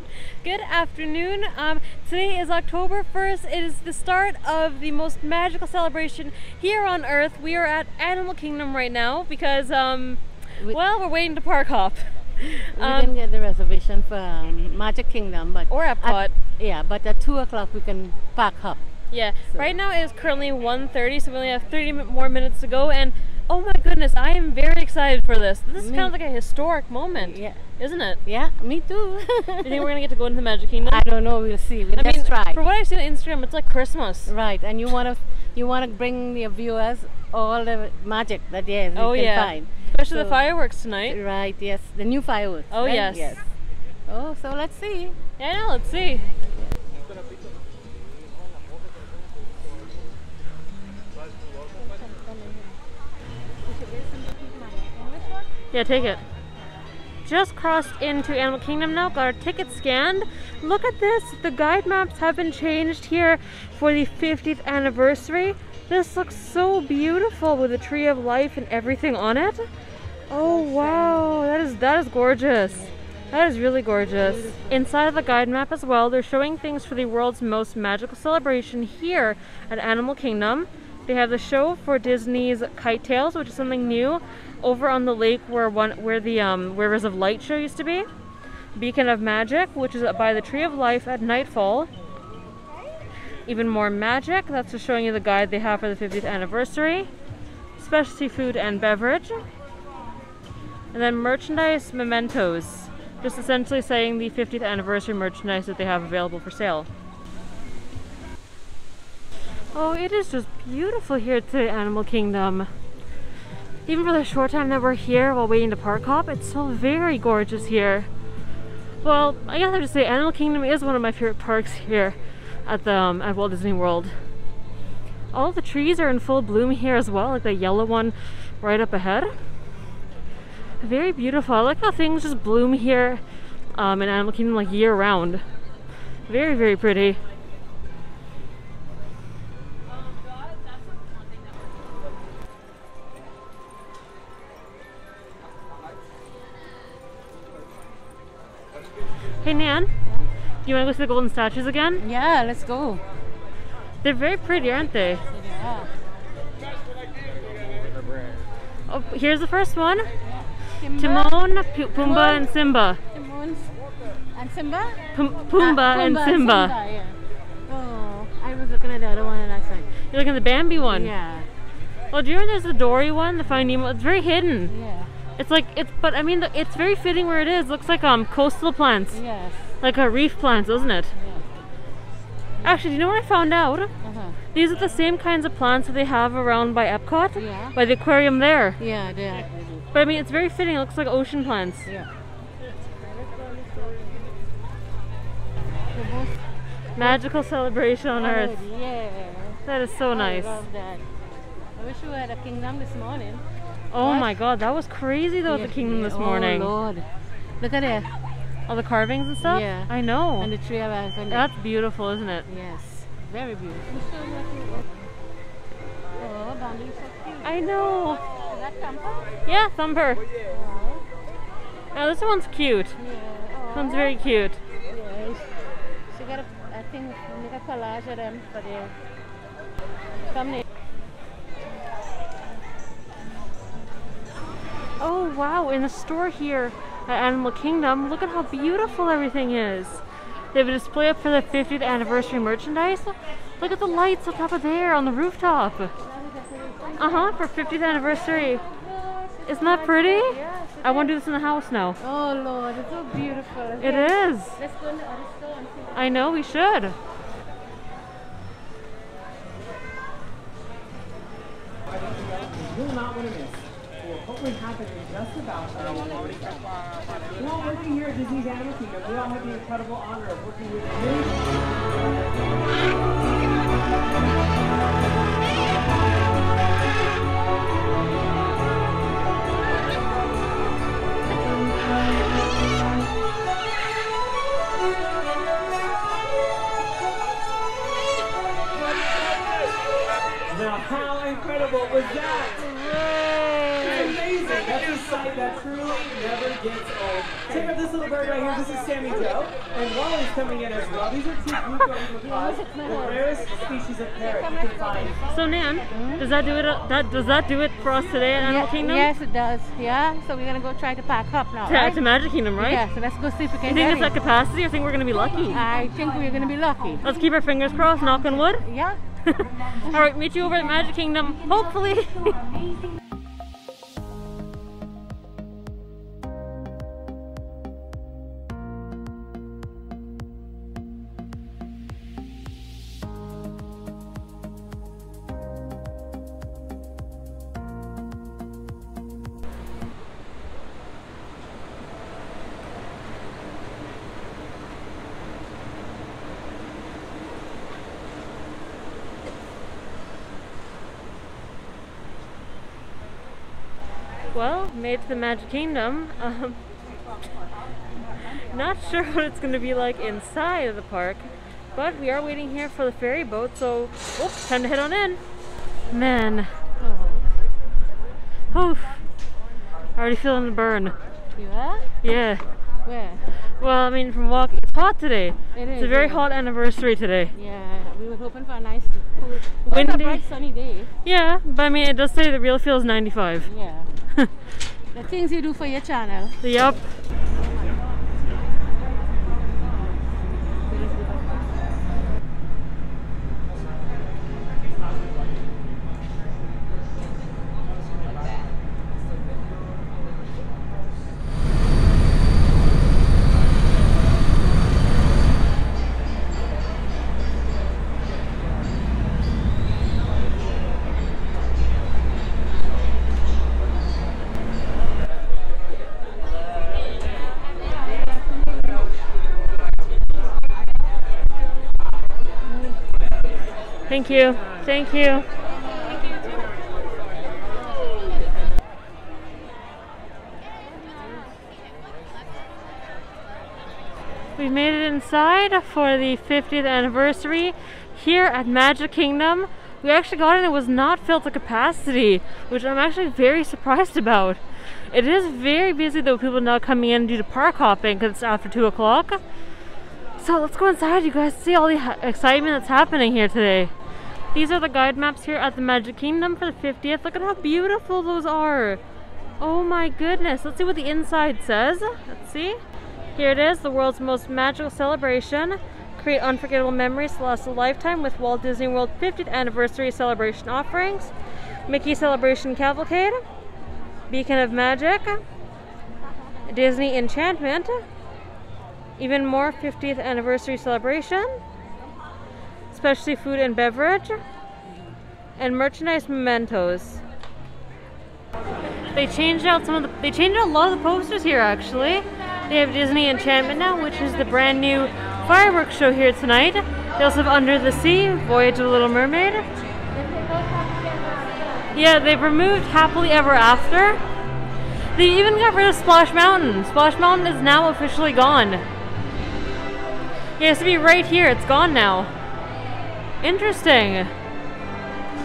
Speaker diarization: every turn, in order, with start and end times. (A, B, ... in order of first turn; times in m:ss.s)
0:00.4-0:13.2 A
0:12.7-0:18.8 B
0:15.7-0:16.3 A
0:19.1-0:28.2 A
0:25.8-0:26.1 B
0:27.2-0:27.6 B
0:28.3-0:29.9 B
0:29.6-0:31.1 A
0:30.8-0:32.6 B
0:31.9-0:34.3 A
0:34.3-0:40.4 B
0:39.0-0:41.2 A
0:41.0-0:43.4 B
0:42.7-0:43.4 A
0:44.1-0:45.2 B
0:45.4-0:46.3 A
0:51.8-0:52.8 B
0:53.6-0:56.2 B
0:55.7-0:56.2 A
0:57.2-1:09.7 A
1:10.3-1:28.1 A
1:10.4-1:11.4 B
1:14.1-1:14.9 B
1:28.8-1:31.9 A
1:33.5-1:37.1 A
1:37.8-1:39.4 A
1:40.9-1:46.9 A
1:49.7-1:52.7 A
1:53.9-1:58.1 A
1:59.0-2:04.1 A
2:05.3-2:09.3 A
2:10.8-2:13.2 A
2:13.7-2:15.4 A
2:16.3-2:17.2 A
2:29.4-2:29.9 A
2:30.6-2:32.0 A
2:32.0-2:33.0 B
2:34.0-2:35.2 A
2:35.3-2:35.9 B
2:38.9-2:40.1 A
2:40.2-2:42.5 B
2:41.0-2:43.0 A
2:43.1-2:43.7 B
2:44.3-2:47.2 B
2:45.2-2:46.8 A
2:47.7-2:49.9 B
2:50.1-2:51.1 A
2:50.8-2:51.5 B
2:52.1-2:54.7 A
2:54.7-2:55.1 B
2:55.4-2:59.2 A
2:59.1-2:59.7 B
2:59.8-3:01.1 A
3:01.1-3:01.4 B
3:02.6-3:03.9 A
3:04.0-3:04.4 B
3:04.5-3:08.8 A
3:07.4-3:07.7 B
3:08.8-3:09.6 B
3:09.9-3:11.9 A
3:13.4-3:14.0 B
3:15.9-3:16.4 B
3:17.0-3:18.6 A
3:18.2-3:19.6 B
3:19.7-3:20.6 A
3:20.1-3:21.0 B
3:21.8-3:23.4 B
3:23.9-3:26.7 A
3:24.0-3:24.3 B
3:25.5-3:27.1 B
3:27.6-3:28.1 B
3:28.7-3:30.5 A
3:29.4-3:31.5 B
3:31.3-3:32.4 A
3:32.5-3:34.9 B
3:36.2-3:37.5 B
3:37.4-3:38.2 A
3:38.3-3:39.3 B
3:39.5-3:40.2 A
3:40.5-3:41.0 B
3:41.9-3:43.0 A
3:43.0-3:44.1 B
3:43.7-3:44.6 A
3:44.9-3:45.5 B
3:46.1-3:49.0 B
3:50.3-3:50.6 B
3:55.0-4:00.0 A
4:00.5-4:05.9 A
4:06.0-4:11.1 B
4:07.0-4:08.6 A
4:09.5-4:12.0 A
4:12.0-4:16.2 B
4:13.8-4:14.6 A
4:16.0-4:17.0 A
4:21.9-4:26.6 C
4:27.4-4:32.0 C
4:50.5-4:52.7 C
4:53.8-5:05.4 C
5:02.2-5:03.3 B
5:05.3-5:09.1 A
5:05.9-5:06.2 B
5:08.4-5:12.0 B
5:11.7-5:12.8 A
5:12.6-5:14.2 B
5:13.7-5:15.7 A
5:15.5-5:17.1 B
5:17.0-5:18.6 A
5:18.6-5:19.0 B
5:19.2-5:22.5 A
5:54.3-5:56.6 A
5:58.5-6:05.2 A
6:05.9-6:06.5 A
6:06.8-6:07.2 B
6:08.5-6:09.0 A
6:10.0-6:10.9 A
6:11.4-6:11.9 B
6:12.0-6:12.4 A
6:12.8-6:13.3 B
6:13.6-6:17.3 A
6:15.6-6:16.2 B
6:17.3-6:20.9 B
6:19.7-6:20.2 A
6:21.0-6:23.5 A
6:23.5-6:23.9 B
6:24.9-6:26.4 B
6:26.4-6:26.9 A
7:02.5-7:02.8 B
7:03.9-7:05.3 A
7:14.4-7:29.2 A
7:30.2-7:33.7 A
7:34.3-7:38.8 A
7:39.4-7:42.6 A
7:43.2-7:51.1 A
7:51.7-7:53.2 A
7:54.1-7:55.2 A
7:56.5-7:57.8 A
7:59.0-8:01.4 A
8:02.7-8:04.2 A
8:05.4-8:07.0 A
8:08.9-8:19.5 A
8:19.9-8:21.8 B
8:21.8-8:24.0 A
8:25.0-8:28.6 A
8:30.4-8:32.1 A
8:33.2-8:34.1 A